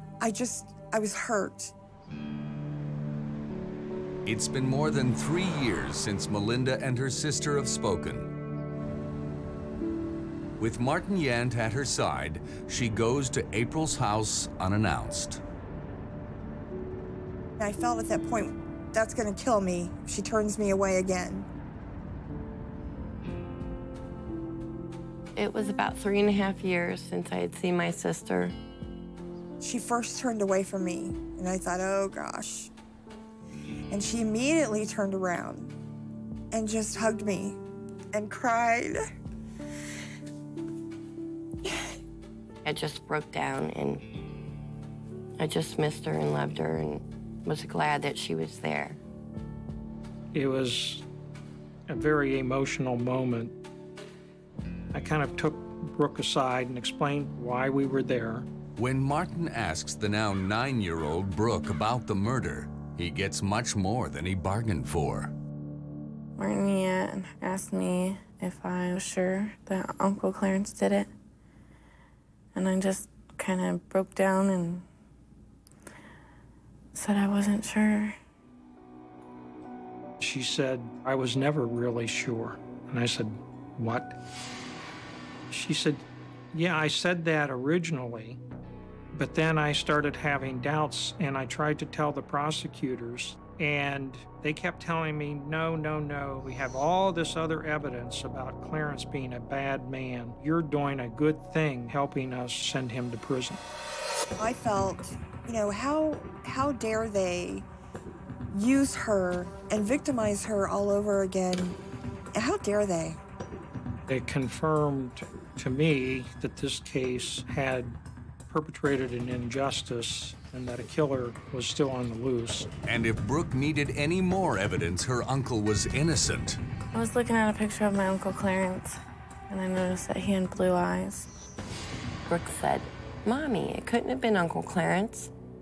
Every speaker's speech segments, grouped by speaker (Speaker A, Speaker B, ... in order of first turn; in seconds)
Speaker A: 0.2-1.7, 17.6-21.5, 29.6-32.7, 33.9-35.7, 36.5-37.6, 38.1-39.0, 104.4-107.7, 108.5-111.8, 112.3-113.2
Speaker B: 4.2-8.3, 10.6-15.4, 58.8-65.3, 122.8-126.6
Speaker C: 25.4-28.5, 42.6-44.0, 45.4-49.0, 132.3-135.3
Speaker D: 50.3-51.0, 51.9-53.5, 54.9-58.5, 80.2-84.2, 85.5-88.4, 89.1-103.6, 114.1-122.7
Speaker E: 66.4-71.1, 72.5-74.8, 76.9-78.2, 126.9-131.3